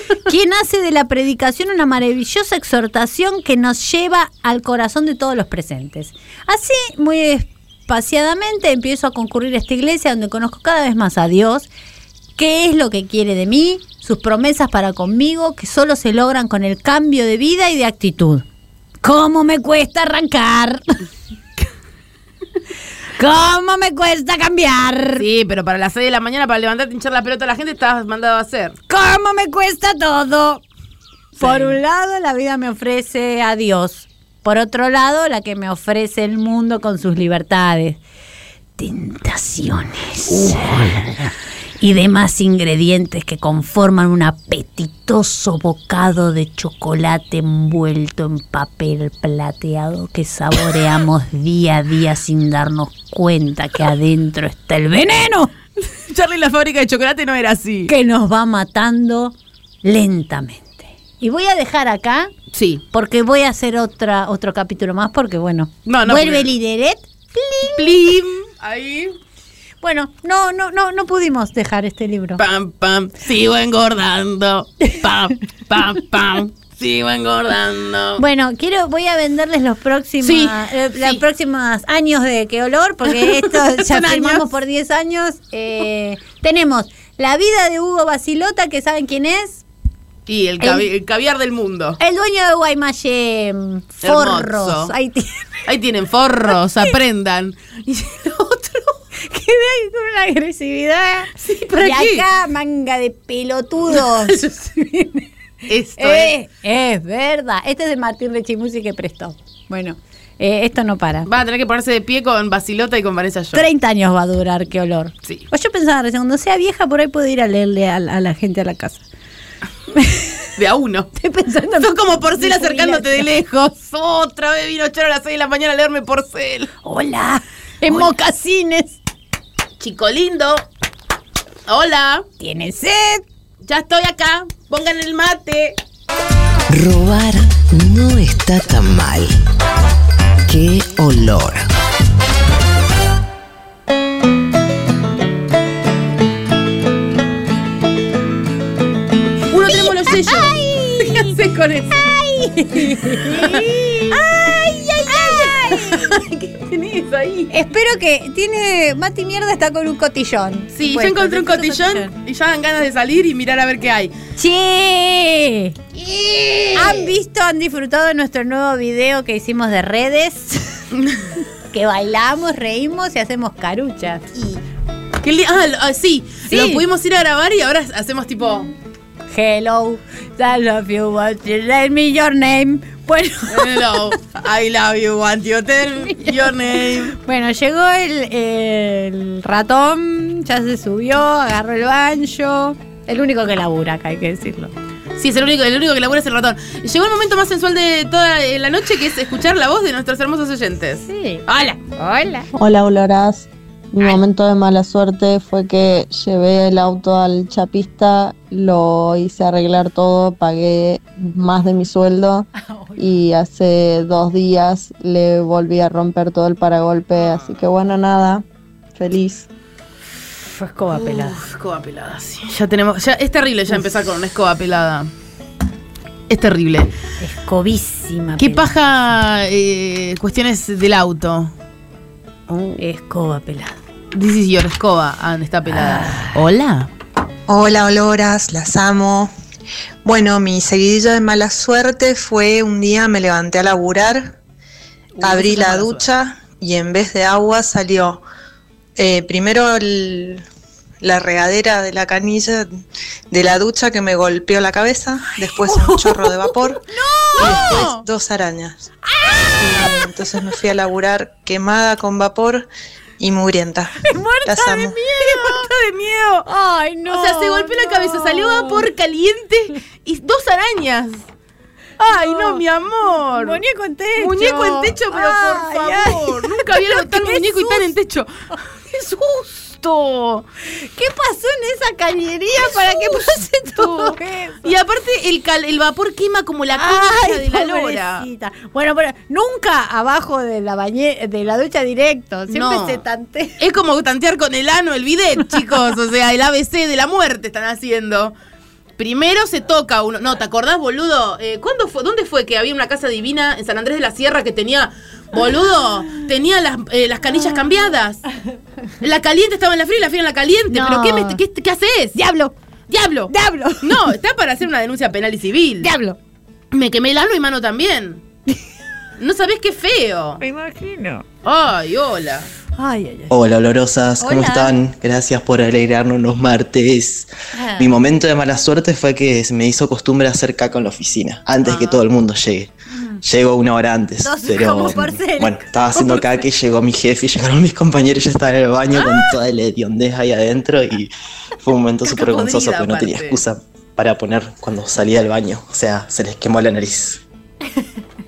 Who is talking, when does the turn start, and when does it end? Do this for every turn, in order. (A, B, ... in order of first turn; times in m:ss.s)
0:00.2-0:11.7 A
0:12.4-0:18.4 A
0:19.0-0:21.0 A
0:23.2-0:25.2 A
0:25.2-0:28.8 B
0:28.9-0:30.6 A
0:31.4-0:31.8 B
0:31.4-0:38.0 A
0:38.8-0:41.1 A
0:40.3-0:41.0 B
0:41.8-0:55.5 A
0:55.8-0:57.9 B
0:57.9-1:02.3 A
1:02.5-1:02.8 B
1:02.9-1:08.0 A
1:05.8-1:06.5 B
1:07.6-1:09.2 B
1:09.8-1:12.4 A
1:12.4-1:18.2 B
1:18.2-1:29.6 A
1:20.2-1:21.2 B
1:23.0-1:24.5 B
1:30.3-1:32.0 B
1:30.6-1:30.9 A
1:32.0-1:35.5 A
1:34.0-1:34.9 B
1:35.6-1:39.0 B
1:39.2-1:45.3 A
1:41.4-1:42.2 B
1:43.9-1:44.4 B
1:45.7-1:46.3 B
1:46.0-1:51.3 A
1:51.2-1:53.6 B
1:53.5-1:59.0 A
2:00.0-2:00.4 A
2:00.6-2:01.1 B
2:01.1-2:03.3 A
2:01.8-2:06.7 B
2:06.8-2:09.0 A
2:07.8-2:08.1 B
2:09.8-2:10.6 B
2:11.7-2:12.2 B
2:12.4-2:13.2 A
2:13.6-2:15.8 B
2:16.7-2:19.3 C
2:20.5-2:21.6 C
2:29.5-2:32.0 B
2:29.7-2:31.3 A
2:32.0-2:36.2 A
2:32.9-2:37.5 B
2:37.5-2:42.1 A
2:40.7-2:44.1 B
2:44.4-2:45.8 A
2:45.9-2:47.1 B
2:46.7-2:50.8 A
2:50.9-2:51.2 B
2:51.7-2:54.5 A
2:55.2-2:58.7 B
2:56.5-2:56.8 A
2:59.3-3:04.1 A
3:03.5-3:07.2 B
3:06.1-3:06.5 A
3:07.1-3:14.7 A
3:15.2-3:21.8 B
3:21.0-3:22.5 A
3:22.5-3:38.4 D
3:32.6-3:33.0 A
3:37.2-3:37.5 B
3:39.0-3:39.5 D
3:40.5-3:41.4 A
3:40.9-3:45.1 B
3:46.3-3:46.9 B
3:47.2-3:48.8 A
3:48.4-3:51.5 B
3:52.5-3:52.8 B
3:52.8-3:53.8 A
3:54.1-3:56.9 B
3:55.7-3:56.4 A
3:57.5-3:59.3 E
4:00.0-4:04.3 E
4:05.1-4:06.1 B
4:05.2-4:08.2 E
4:09.0-4:10.4 E
4:11.0-4:12.7 E
4:13.3-4:16.8 E
4:15.7-4:16.2 B
4:16.9-4:17.8 A
4:17.4-4:18.0 B
4:17.4-4:18.9 E
4:19.1-4:20.0 A
4:19.6-4:22.7 E
4:23.2-4:25.0 E
4:24.0-4:25.7 A
4:25.2-4:26.5 B
4:26.4-4:28.9 A
4:27.1-4:31.2 B
4:32.0-4:33.6 B
4:32.1-4:32.6 A
4:33.2-4:37.9 A
4:34.2-4:40.4 B
4:40.8-4:44.7 A
4:42.6-4:48.3 B
4:46.7-4:53.6 A
4:52.5-4:53.0 B
4:53.6-4:58.3 B
4:59.0-5:08.2 B
5:09.0-5:12.2 B
5:10.7-5:11.4 A
5:12.1-5:12.5 A
5:12.9-5:15.9 B
5:13.3-5:14.1 A
5:15.8-5:16.2 A
5:16.7-5:18.2 B
5:19.2-5:20.4 B
5:20.4-5:21.2 A
5:21.4-5:22.5 B
5:22.8-5:23.3 A
5:23.3-5:32.7 F
5:24.2-5:24.7 A
5:27.5-5:28.0 A
5:31.6-5:32.0 B
5:32.9-5:33.2 A
5:33.2-5:47.2 F
5:34.2-5:36.4 A
5:42.0-5:43.4 B